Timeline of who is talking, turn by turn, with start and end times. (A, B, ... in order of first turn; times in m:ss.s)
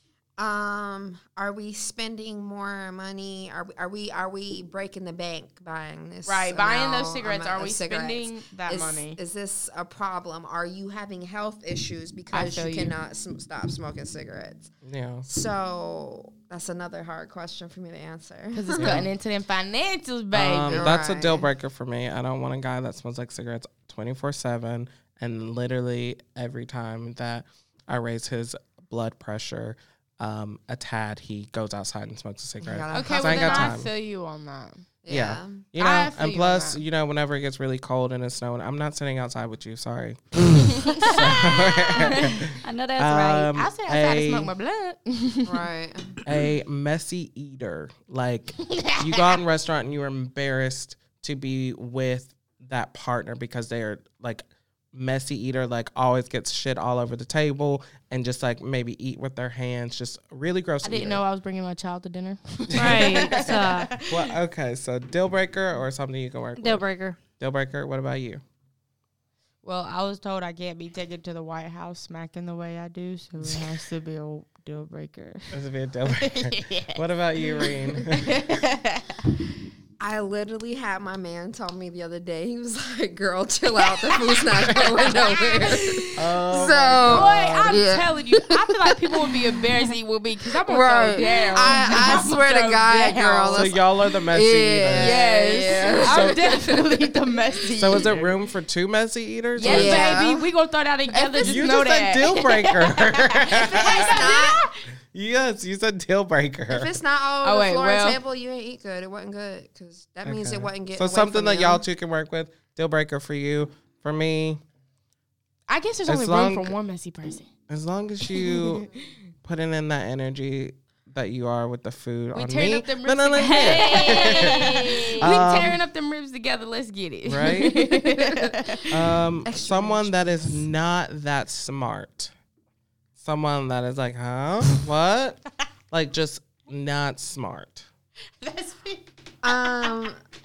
0:00.4-0:14.7 A
0:06.3-0:09.2 B
0:12.3-0:13.0 B
0:14.8-0:15.3 C
0:15.3-0:19.0 A
0:18.5-0:20.9 B
0:18.8-0:19.1 C
0:20.3-0:33.9 C
0:20.7-0:21.5 A
0:32.6-0:33.8 A
0:32.9-0:34.9 B
0:35.0-0:35.7 A
0:35.1-0:44.5 C
0:35.8-0:36.8 B
0:40.8-0:41.2 B
0:40.9-0:43.5 D
0:42.0-0:42.4 B
0:43.5-0:45.7 B
0:45.4-0:46.2 A
0:46.2-1:01.2 C
0:48.6-0:49.4 B
1:00.8-1:04.3 B
1:02.7-1:03.2 C
1:02.8-1:03.9 D
1:04.1-1:06.8 C
1:06.6-1:07.2 D
1:07.4-1:08.4 C
1:09.6-1:19.3 B
1:15.5-1:18.6 C
1:20.0-1:29.5 A
1:24.7-1:25.0 C
1:25.2-1:26.2 B
1:26.2-1:27.8 C
1:27.1-1:33.8 B
1:30.7-1:37.1 A
1:33.5-1:36.6 C
1:34.9-1:38.4 B
1:37.8-1:40.2 C
1:39.6-1:44.8 B
1:39.6-1:40.5 A
1:41.4-1:44.5 C
1:43.8-1:44.6 A
1:45.1-1:47.0 C
1:46.7-1:51.8 A
1:47.4-1:48.2 B
1:50.2-1:54.6 C
1:55.7-1:57.5 B
1:56.1-1:56.8 C
1:57.7-1:58.9 C
1:58.3-1:59.1 B
1:59.4-2:05.8 C
2:02.3-2:08.9 B
2:03.4-2:05.3 D
2:07.2-2:08.0 C
2:08.9-2:12.3 C
2:09.0-2:10.6 A
2:13.2-2:17.9 C
2:18.4-2:20.0 B
2:19.4-2:20.2 A